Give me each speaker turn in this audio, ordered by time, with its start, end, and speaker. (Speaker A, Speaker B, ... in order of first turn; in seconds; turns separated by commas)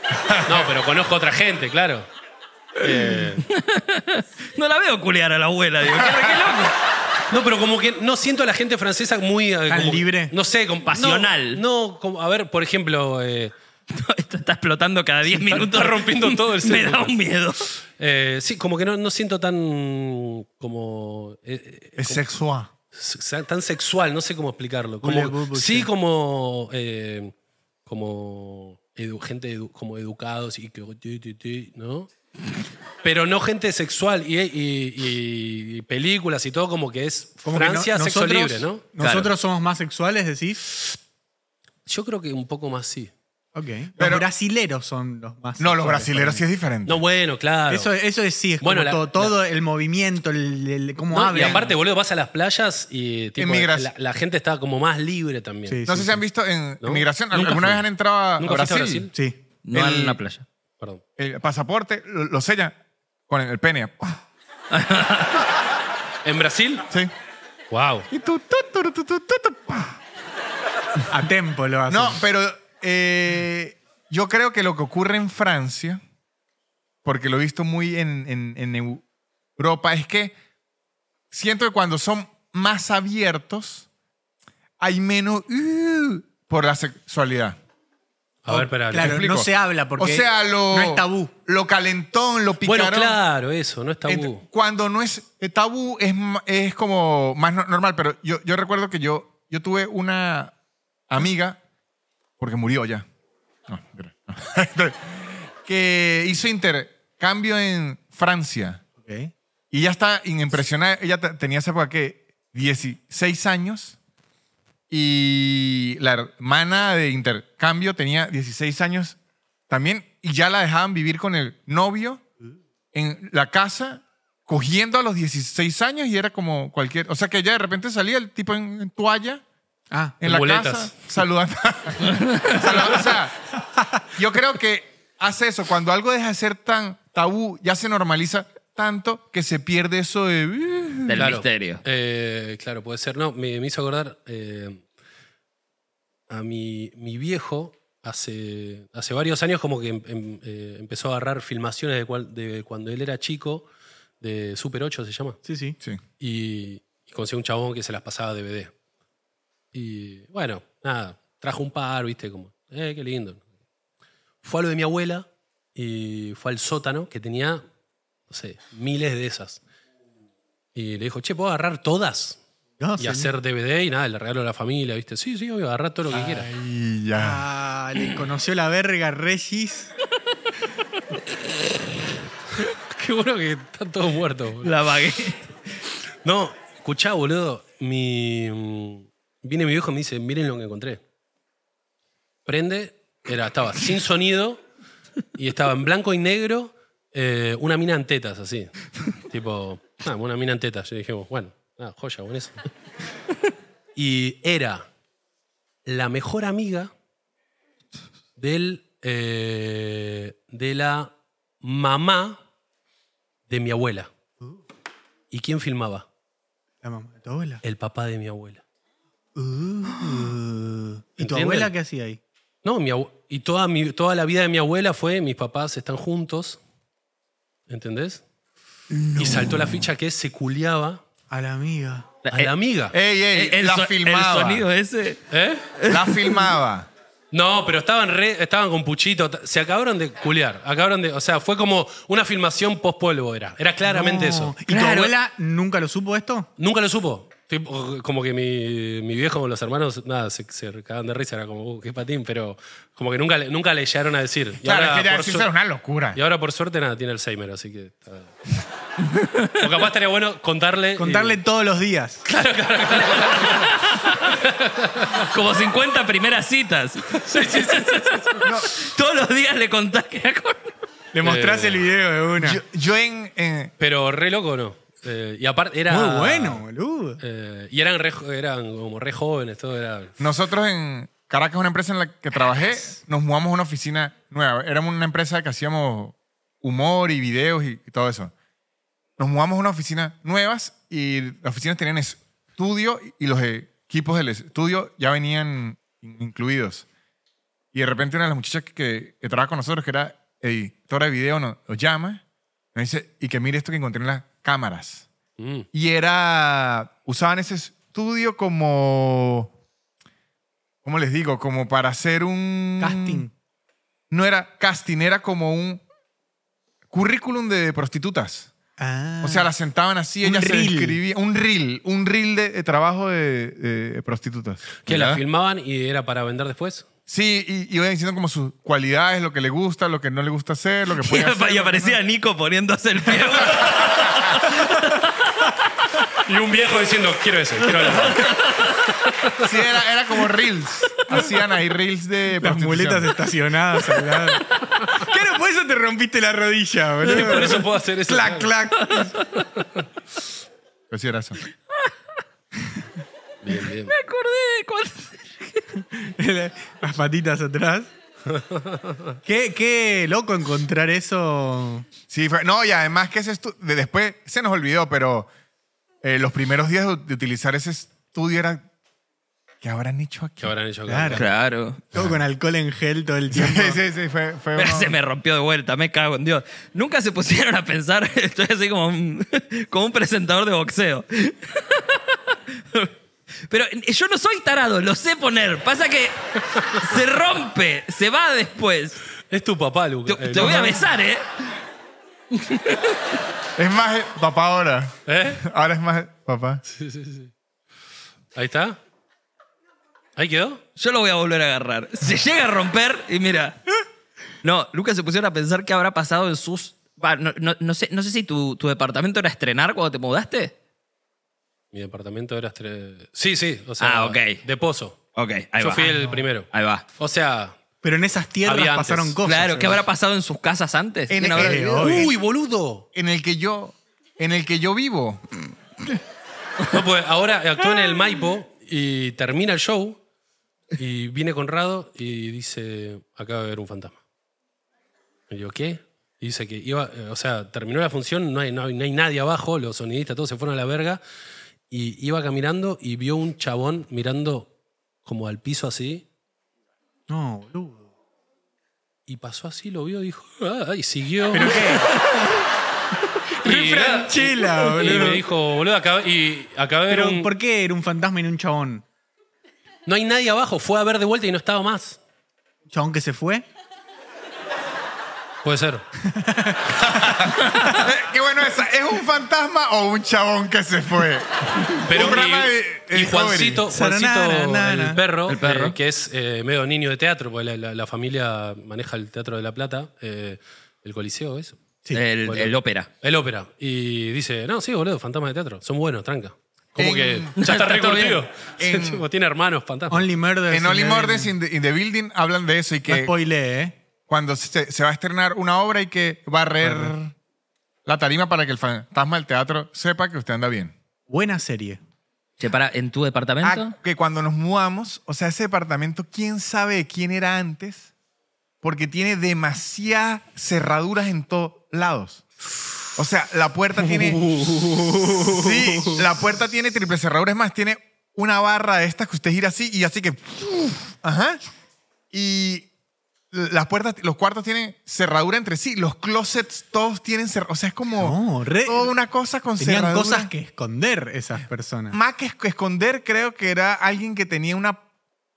Speaker A: 0.2-0.6, Speaker B: 0.4-2.1, Speaker C: 2.8-6.8, Speaker B: 2.8-3.4, Speaker B: 7.3-13.5, Speaker D: 9.7-10.3, Speaker C: 10.9-11.6, Speaker C: 13.9-17.7, Speaker B: 15.2-22.2, Speaker A: 22.0-22.7, Speaker B: 22.9-27.3, Speaker D: 25.0-25.9, Speaker B: 27.8-32.1, Speaker B: 33.0-38.8, Speaker D: 37.5-40.7, Speaker C: 39.0-39.3, Speaker B: 41.9-43.1, Speaker D: 43.5-46.4, Speaker A: 44.0-44.2, Speaker A: 45.6-47.0, Speaker B: 46.9-47.9, Speaker D: 47.7-51.8, Speaker B: 48.6-49.3, Speaker B: 51.1-55.8, Speaker C: 51.3-51.6, Speaker A: 53.4-53.9, Speaker D: 55.7-56.2, Speaker A: 55.9-59.1, Speaker B: 56.8-57.8, Speaker B: 58.4-59.1, Speaker C: 59.6-60.4, Speaker A: 59.7-60.2, Speaker A: 61.2-62.8, Speaker A: 63.3-64.2, Speaker C: 64.7-65.4, Speaker B: 66.2-66.8, Speaker B: 67.7-68.1, Speaker A: 68.1-70.0, Speaker D: 71.1-72.2, Speaker A: 71.9-76.0, Speaker A: 77.0-79.0, Speaker A: 79.6-80.3, Speaker A: 81.3-83.9, Speaker A: 84.8-87.6, Speaker B: 88.4-89.2, Speaker D: 88.5-91.3, Speaker A: 88.9-93.2, Speaker B: 92.6-94.4, Speaker A: 94.0-100.5, Speaker A: 101.1-101.6, Speaker A: 102.4-103.0, Speaker A: 103.7-108.8, Speaker D: 109.0-109.3, Speaker A: 109.7-114.0, Speaker A: 114.9-119.2, Speaker A: 119.7-122.2, Speaker A: 122.9-129.4, Speaker D: 129.9-130.2, Speaker A: 130.2-133.3, Speaker B: 130.2-130.9, Speaker C: 132.0-132.8, Speaker A: 134.1-141.3, Speaker C: 141.1-141.8, Speaker B: 141.2-144.8, Speaker B: 146.3-153.7, Speaker B: 154.2-155.4, Speaker D: 155.4-155.8, Speaker B: 156.2-158.7, Speaker B: 159.7-163.4, Speaker B: 164.4-167.6, Speaker B: 168.3-169.6, Speaker B: 170.7-172.4, Speaker D: 172.8-173.3, Speaker B: 173.0-176.5, Speaker A: 176.1-177.4, Speaker D: 177.2-179.9, Speaker B: 182.6-184.7, Speaker C: 184.6-185.5, Speaker B: 186.2-191.0, Speaker B: 192.4-194.6, Speaker B: 195.3-198.7, Speaker B: 199.3-202.6, Speaker B: 203.9-204.9, Speaker B: 205.9-206.9, Speaker B: 208.4-212.4, Speaker B: 213.5-214.1, Speaker B: 215.3-216.1, Speaker D: 216.8-217.6, Speaker B: 217.6-218.6, Speaker D: 219.4-222.2, Speaker B: 221.2-221.7, Speaker B: 222.6-226.6, Speaker B: 227.7-228.2, Speaker C: 229.0-229.5, Speaker B: 229.1-231.0, Speaker D: 231.3-232.1, Speaker C: 232.2-232.5, Speaker B: 232.3-232.9, Speaker A: 232.9-234.7, Speaker C: 233.3-235.2, Speaker B: 235.3-235.6, Speaker C: 235.8-236.5, Speaker A: 235.9-236.9, Speaker B: 237.3-244.5, Speaker D: 243.9-246.5, Speaker C: 244.7-245.1, Speaker B: 246.6-255.5, Speaker A: 254.6-256.2, Speaker B: 256.1-258.6, Speaker C: 259.0-259.7, Speaker B: 259.6-261.4, Speaker D: 261.0-262.2, Speaker B: 262.2-263.7, Speaker C: 263.0-264.4, Speaker B: 264.4-265.3, Speaker C: 265.2-270.7, Speaker B: 267.1-268.4, Speaker A: 268.4-268.7, Speaker D: 271.1-272.6, Speaker B: 271.2-271.9, Speaker A: 272.4-273.7, Speaker B: 273.8-276.6, Speaker D: 275.9-277.2, Speaker B: 277.2-280.2, Speaker A: 280.2-288.3, Speaker A: 289.2-296.9, Speaker A: 297.7-302.2, Speaker A: 302.7-305.1, Speaker B: 305.4-305.7, Speaker A: 305.7-309.5, Speaker A: 310.8-313.2, Speaker D: 312.8-313.3, Speaker A: 314.1-315.8, Speaker A: 316.9-318.5, Speaker D: 318.8-319.5, Speaker A: 319.2-325.2, Speaker D: 320.2-321.0, Speaker B: 324.8-326.9, Speaker A: 327.1-332.0, Speaker C: 331.0-335.1, Speaker B: 336.2-338.3, Speaker C: 337.7-338.8, Speaker A: 339.4-343.1, Speaker D: 342.4-349.1, Speaker B: 347.0-348.5, Speaker C: 348.9-349.4, Speaker A: 350.9-351.4, Speaker B: 353.4-353.9, Speaker C: 353.9-355.6, Speaker D: 355.8-357.9, Speaker B: 358.3-359.1, Speaker D: 359.2-361.8, Speaker A: 362.1-365.3, Speaker A: 366.0-368.6, Speaker A: 369.6-370.5, Speaker B: 370.4-371.3, Speaker D: 370.9-371.3, Speaker C: 371.1-371.8, Speaker D: 371.9-373.8, Speaker A: 373.3-374.9, Speaker C: 374.6-382.9, Speaker C: 383.5-389.0, Speaker B: 389.3-390.8, Speaker C: 390.1-391.3, Speaker A: 390.3-390.7, Speaker C: 392.4-392.8, Speaker A: 393.6-396.6, Speaker B: 395.1-395.4, Speaker B: 396.7-397.3, Speaker B: 398.3-398.8, Speaker B: 400.2-400.6, Speaker C: 400.8-403.8, Speaker C: 404.4-410.5, Speaker B: 411.7-415.0, Speaker C: 413.8-414.4, Speaker C: 415.1-415.9, Speaker B: 415.6-417.5, Speaker D: 415.8-416.2, Speaker C: 416.5-416.8, Speaker D: 417.8-419.8, Speaker B: 418.4-419.2, Speaker C: 419.2-421.6, Speaker A: 421.1-422.2, Speaker D: 421.2-422.1, Speaker B: 421.8-422.8, Speaker A: 422.9-425.2, Speaker B: 426.7-430.0, Speaker B: 430.8-434.0, Speaker B: 435.3-441.0, Speaker B: 441.7-444.5, Speaker B: 445.0-446.0, Speaker D: 447.1-447.8, Speaker B: 449.1-451.7, Speaker D: 451.3-451.9, Speaker D: 453.4-455.2, Speaker B: 453.4-457.3, Speaker D: 456.9-458.8, Speaker B: 459.9-462.0, Speaker D: 462.7-463.4, Speaker B: 465.4-465.9, Speaker D: 466.0-467.0, Speaker A: 467.0-473.6, Speaker B: 471.8-481.6, Speaker D: 473.7-475.0, Speaker C: 475.3-475.8, Speaker C: 481.9-482.9, Speaker B: 482.2-490.1, Speaker A: 486.8-487.3, Speaker C: 487.4-488.2, Speaker A: 488.6-489.0, Speaker D: 489.9-491.3, Speaker A: 490.5-493.1, Speaker D: 492.9-493.8, Speaker A: 494.1-497.1, Speaker D: 496.6-496.9, Speaker A: 497.9-500.7, Speaker D: 501.1-501.8, Speaker C: 502.4-503.7, Speaker A: 503.4-507.9, Speaker A: 508.6-512.2, Speaker A: 512.9-514.2, Speaker B: 514.2-514.7, Speaker D: 514.4-516.0, Speaker A: 515.3-521.4, Speaker A: 522.1-522.7, Speaker A: 523.3-530.3, Speaker D: 528.0-528.9, Speaker D: 529.6-532.0, Speaker A: 531.9-534.8